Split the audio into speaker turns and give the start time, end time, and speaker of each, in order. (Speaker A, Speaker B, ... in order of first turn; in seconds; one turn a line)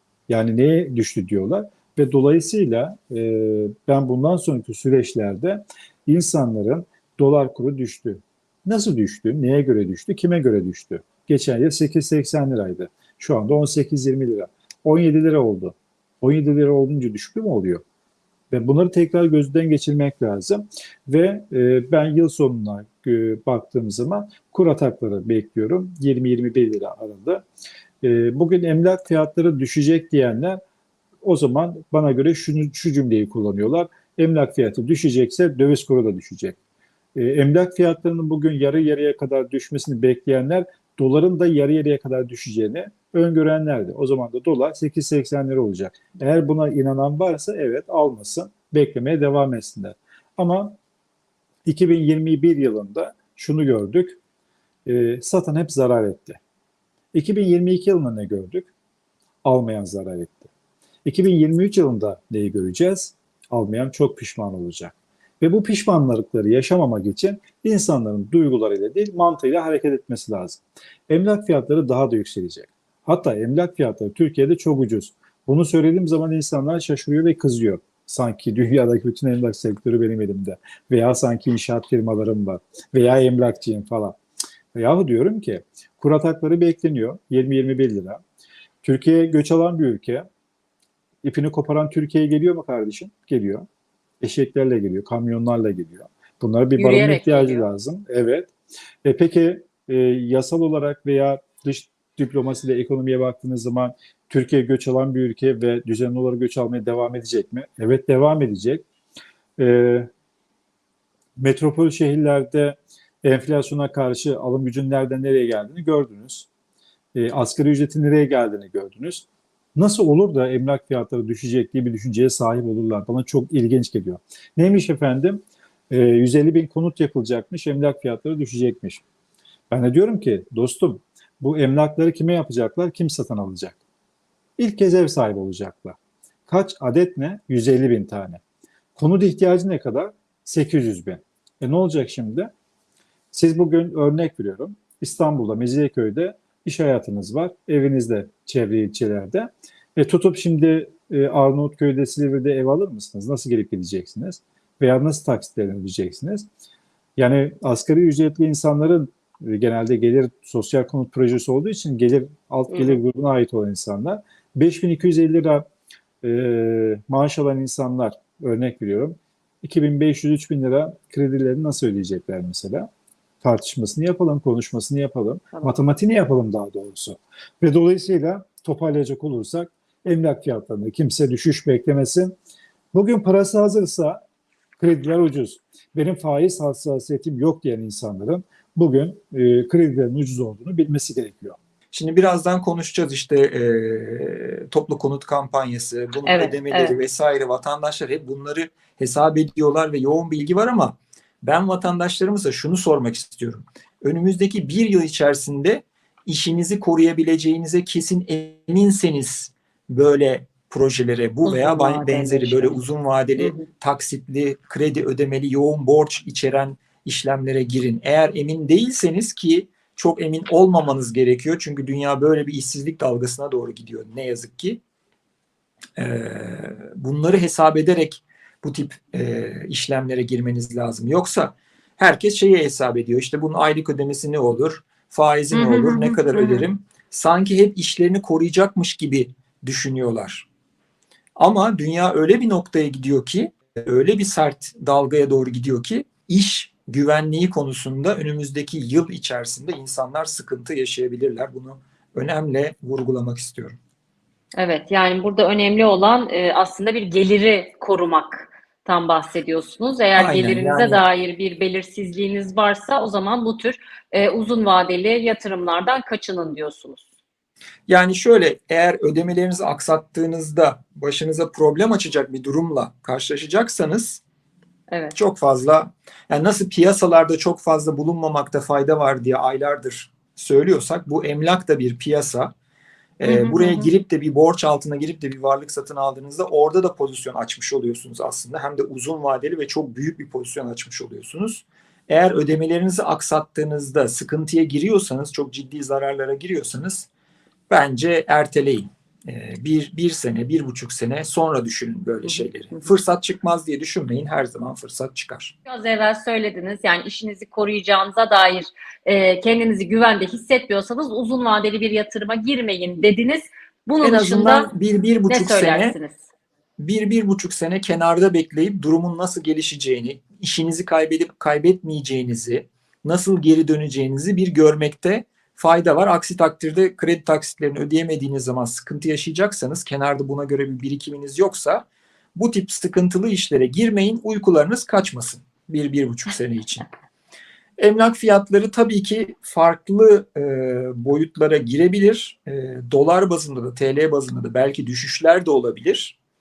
Speaker A: 0.3-17.8
Speaker A: 18.5-27.5
Speaker A: 28.0-30.6
Speaker A: 31.2-36.6
Speaker A: 37.2-50.8
Speaker A: 51.7-54.2
Speaker A: 54.9-56.4
Speaker A: 57.1-58.7
Speaker A: 59.4-60.5
Speaker A: 61.0-84.2
Speaker A: 84.8-88.2
Speaker A: 88.8-90.3
Speaker A: 91.2-93.7
Speaker A: 94.2-98.5
Speaker B: 96.8-97.7
Speaker A: 99.0-108.8
Speaker A: 109.6-110.1
Speaker A: 111.4-116.5
Speaker A: 117.2-129.0
Speaker A: 129.7-133.8
Speaker A: 134.6-136.0
Speaker A: 136.5-138.4
Speaker A: 139.0-142.5
Speaker A: 143.3-156.5
Speaker A: 157.2-165.7
Speaker B: 162.7-163.0
Speaker A: 166.2-172.9
Speaker A: 173.4-182.3
Speaker A: 182.9-184.2
Speaker A: 184.8-191.6
Speaker C: 191.9-224.8
Speaker B: 196.2-197.0
Speaker B: 211.4-212.8
Speaker B: 213.4-213.7
Speaker C: 226.0-240.5
Speaker B: 235.5-236.7
Speaker C: 241.4-253.8
Speaker B: 254.6-267.1
Speaker C: 260.1-261.1
Speaker C: 267.9-274.2
Speaker C: 275.1-282.5
Speaker C: 283.2-297.1
Speaker B: 283.3-283.9
Speaker C: 297.7-305.6
Speaker B: 302.2-302.9
Speaker B: 305.7-314.7
Speaker C: 314.0-316.0
Speaker B: 315.3-316.2
Speaker C: 316.8-336.9
Speaker C: 337.8-346.2